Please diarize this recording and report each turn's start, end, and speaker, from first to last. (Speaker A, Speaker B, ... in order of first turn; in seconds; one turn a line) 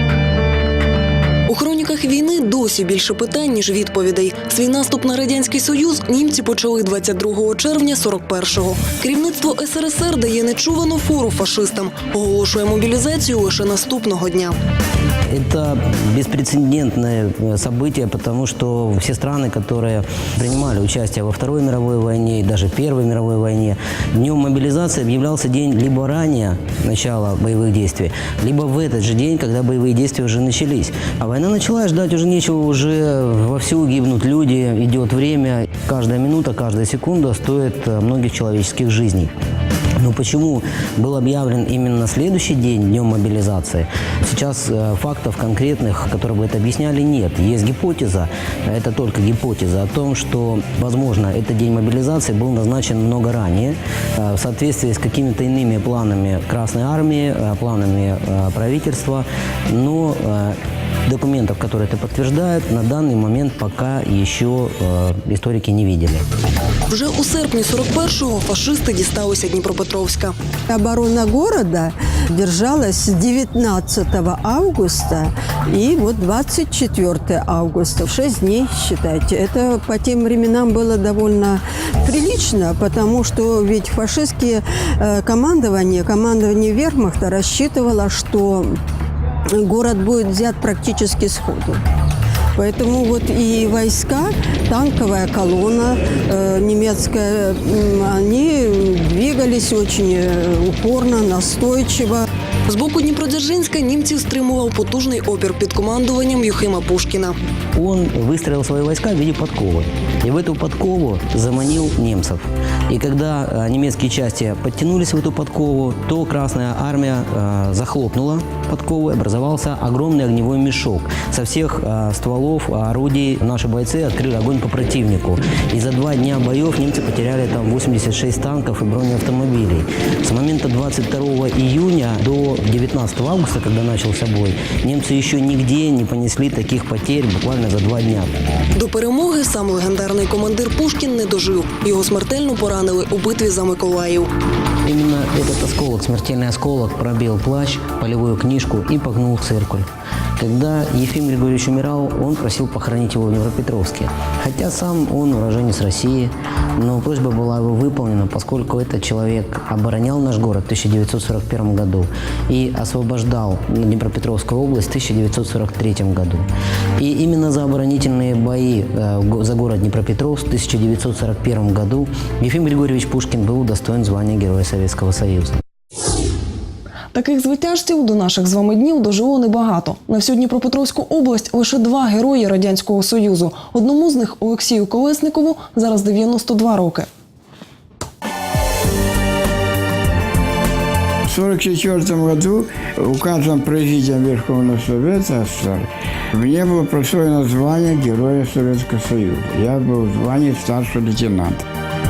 Speaker A: 1.5-14.6
Speaker B: 15.3-39.3
Speaker B: 40.0-66.2
Speaker A: 66.9-70.3
Speaker C: 70.7-88.8
Speaker C: 89.5-91.8
Speaker C: 92.6-102.2
Speaker A: 102.7-107.4
Speaker B: 107.8-138.4
Speaker A: 138.8-144.3
Speaker B: 144.8-166.5
Speaker B: 167.0-175.6
Speaker A: 177.1-187.1
Speaker D: 191.3-201.6